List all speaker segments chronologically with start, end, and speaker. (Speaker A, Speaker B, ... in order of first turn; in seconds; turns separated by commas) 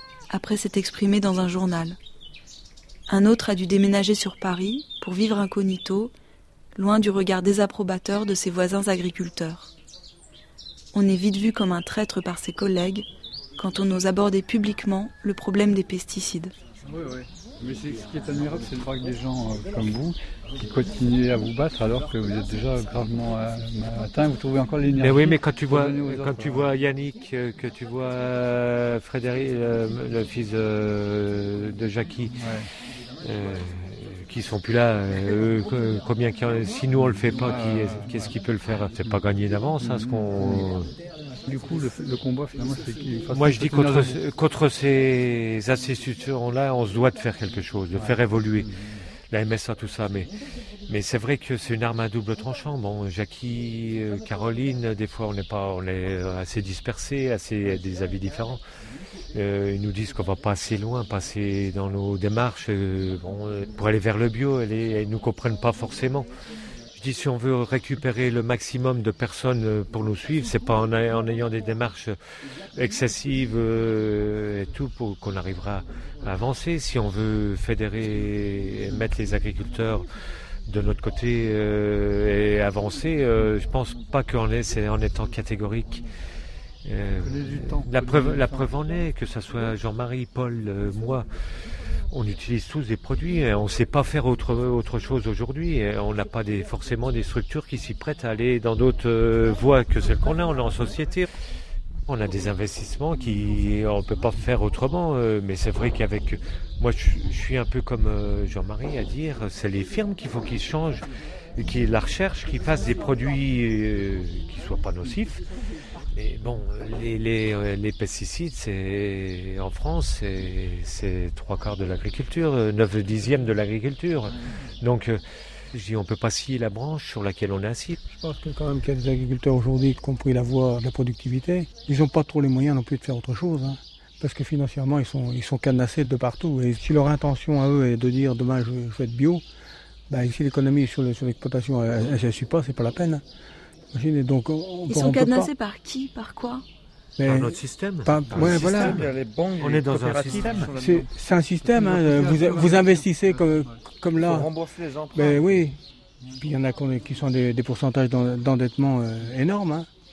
Speaker A: 0.3-2.0, Speaker A: 3.1-6.1, Speaker A: 6.8-9.7, Speaker A: 10.9-13.1, Speaker A: 13.6-16.5, Speaker B: 16.9-26.8, Speaker C: 25.0-32.4, Speaker B: 32.4-32.7, Speaker C: 33.2-40.9, Speaker B: 37.0-38.4, Speaker B: 39.8-40.7, Speaker B: 41.5-44.2, Speaker C: 43.3-48.7, Speaker C: 49.3-50.3, Speaker C: 50.9-58.6, Speaker C: 59.3-66.3, Speaker C: 66.9-72.2, Speaker C: 72.8-80.0, Speaker C: 80.7-86.0, Speaker C: 86.8-91.3, Speaker B: 87.2-88.8, Speaker C: 92.1-101.2, Speaker C: 102.1-115.4, Speaker C: 116.1-125.2, Speaker C: 125.7-128.0, Speaker D: 128.1-139.4, Speaker D: 140.1-143.2, Speaker D: 143.9-145.5, Speaker A: 144.9-146.6, Speaker D: 147.2-149.1, Speaker C: 147.3-150.7, Speaker E: 148.4-151.1, Speaker D: 150.7-154.5, Speaker E: 151.8-153.0, Speaker E: 154.2-155.7, Speaker D: 155.1-155.8, Speaker D: 156.4-159.9